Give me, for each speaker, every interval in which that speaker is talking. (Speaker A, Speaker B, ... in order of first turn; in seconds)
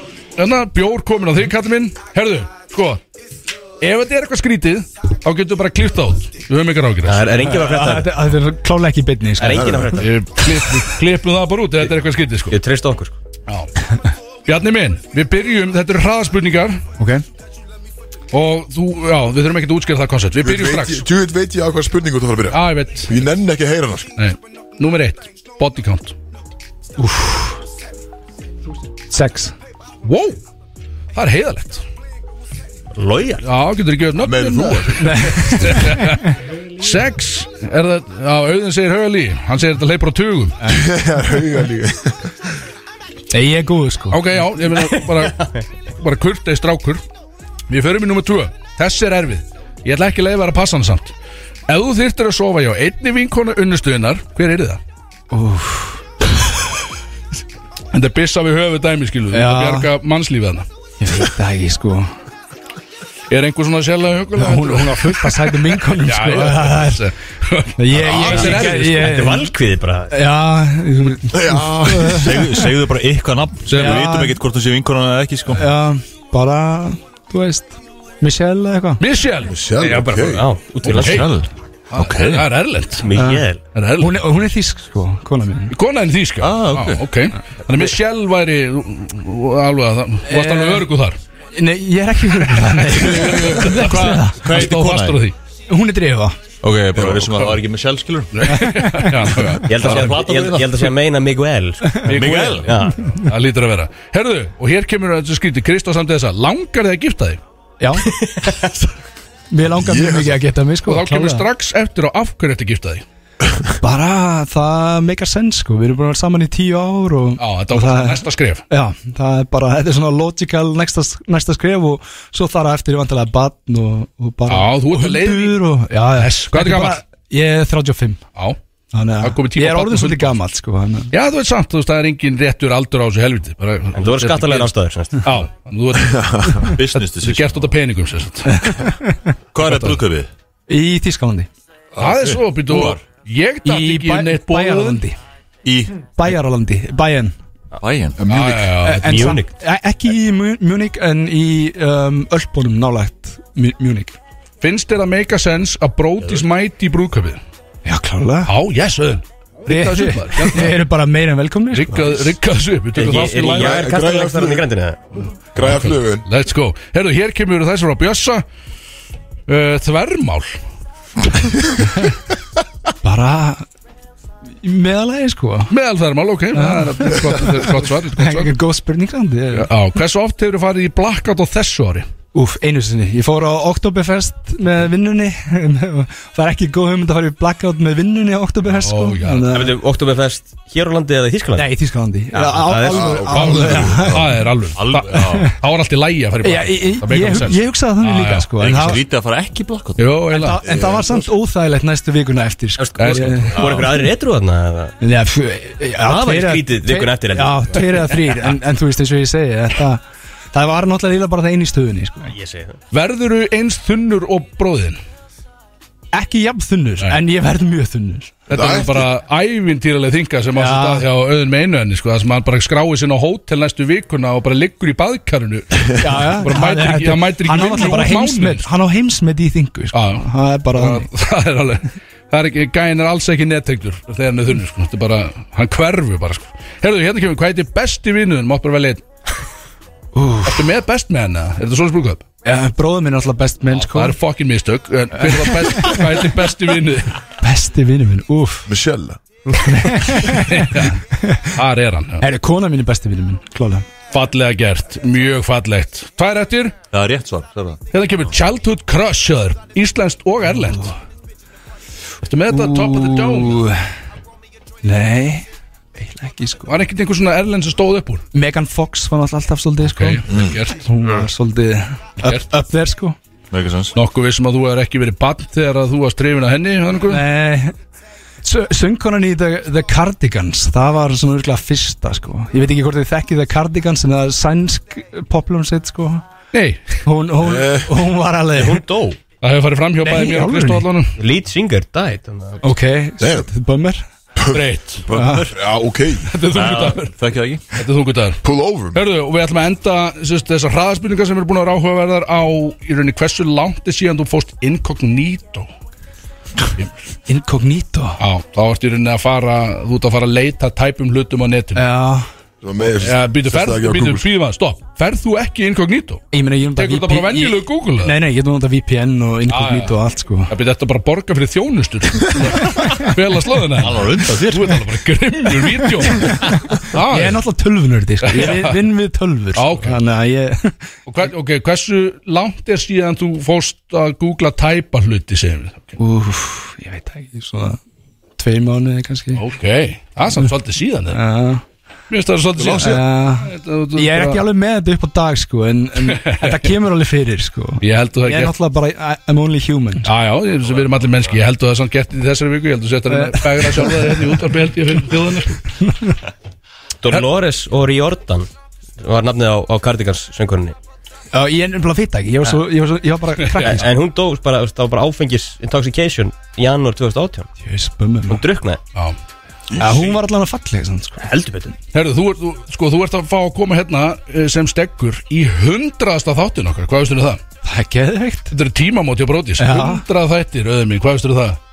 Speaker A: 0.4-3.0, 3.8-7.3, 10.0-12.6, 14.5-16.9, 18.3-21.1, 22.5-23.2, 24.2-26.2, 30.1-30.4, 31.1-31.8, 33.4-40.6, 44.1-45.4, 46.0-47.0, 47.7-51.1, 51.7-54.8, 57.9-60.7, 63.3-69.2, 73.7-74.1, 79.0-79.5, 80.8-81.3, 81.9-83.1, 83.8-84.2, 85.7-91.2, 92.4-95.3, 98.3-100.1, 102.0-107.4, 110.9-113.0, 117.4-118.7, 124.5-127.0, 129.2-130.4, 131.1-138.9, 139.6-140.0, 142.0-145.0, 148.3-149.4, 154.6-157.4, 158.5-160.8, 161.7-163.9, 165.6-168.4, 169.5-170.6, 175.7-178.6, 179.5-182.1, 188.7-189.5, 193.3-198.5, 200.0-200.6, 203.0-203.5, 212.9-215.0, 218.5-228.7, 229.9-239.0, 240.4-242.2, 243.7-247.2, 250.3-251.0, 251.6-252.3, 254.1-256.8, 257.9-261.0, 262.2-263.6, 266.7-268.2, 269.8-271.2, 272.2-272.5, 273.9-277.2, 286.5-287.0, 289.4-291.1, 294.5-295.1, 296.3-297.1, 297.7-298.4, 298.9-305.7, 308.2-311.9, 313.0-318.2, 319.5-320.0, 320.5-327.4, 328.2-328.8, 329.6-330.0, 331.1-335.9, 339.4-341.2, 342.1-344.5, 346.1-346.8, 347.8-348.6, 350.0-355.6, 363.5-363.8, 371.9-377.4, 378.5-381.6
Speaker B: 7.0-8.2, 9.4-10.1, 12.5-13.2, 32.9-33.4, 44.7-45.6, 68.0-70.2, 79.8-81.3, 83.0-83.6, 99.7-103.0, 108.0-108.7, 133.9-135.3, 149.1-149.5, 163.0-165.0, 189.5-191.7, 192.3-193.6, 202.8-204.9, 206.0-208.4, 212.3-212.8, 288.5-289.2, 291.2-292.6, 357.0-358.5, 359.0-360.8, 363.6-367.5, 368.3-368.8, 371.2-371.8
Speaker C: 7.4-10.0, 17.0-17.2, 27.0-27.6, 29.1-29.5, 35.0-36.3, 40.6-40.9, 43.3-44.2, 55.3-56.0, 59.3-59.9, 61.0-62.1, 64.4-67.1, 67.8-69.5, 70.1-72.8, 73.8-74.4, 75.5-79.0, 83.2-83.5, 84.0-85.8, 90.3-90.9, 91.5-94.5, 95.7-96.4, 98.5-99.3, 107.8-108.1, 109.5-111.5, 113.8-128.2, 128.9-131.1, 138.5-139.3, 140.7-141.5, 143.6-145.2, 146.1-147.4, 148.7-154.2, 157.8-158.5, 159.7-162.2, 173.0-173.7, 174.6-175.7, 176.5-179.7, 182.3-189.8, 191.6-194.3, 196.4-199.1, 200.3-203.6, 205.0-210.0, 210.5-212.3, 216.1-218.5, 220.6-221.1, 226.0-231.1, 240.1-240.7, 242.4-244.2, 245.2-246.3, 247.4-248.7, 249.7-251.5, 252.2-253.9, 262.5-263.8, 264.8-266.8, 268.3-273.2, 277.1-277.8, 278.4-286.2, 287.1-288.9, 290.0-290.9, 292.6-294.1, 295.1-295.5, 307.3-308.2, 311.8-312.3, 316.3-320.5, 322.6-322.9, 325.7-326.6, 327.1-330.7, 336.0-337.8, 338.4-339.4, 341.1-341.6, 342.8-350.1, 353.1-354.4, 355.8-356.1, 361.3-363.9, 367.6-368.4, 369.8-371.3, 377.6-378.5, 379.6-380.0
Speaker D: 9.5-9.9, 20.4-24.1, 34.2-35.2, 40.6-42.5, 71.3-72.4, 79.5-80.5, 97.0-97.3, 109.8-110.5, 136.0-136.7, 148.2-148.7, 163.2-164.7, 165.5-166.3, 192.8-194.2, 218.5-219.1, 248.7-249.2, 287.4-288.0, 293.2-293.5, 294.4-294.6, 295.5-296.3, 298.4-299.0, 312.6-314.3, 342.6-343.0, 369.7-370.2
Speaker E: 72.1-75.7, 80.9-82.5, 86.4-87.0, 93.1-95.2, 96.6-98.6, 99.8-100.9, 102.1-102.8, 136.7-137.7, 139.5-140.3, 142.0-143.0, 145.7-146.3, 147.8-148.2, 194.7-195.5, 198.6-201.1, 203.5-204.0, 256.9-257.8, 273.5-273.9, 295.1-295.5, 296.5-297.6, 323.8-324.8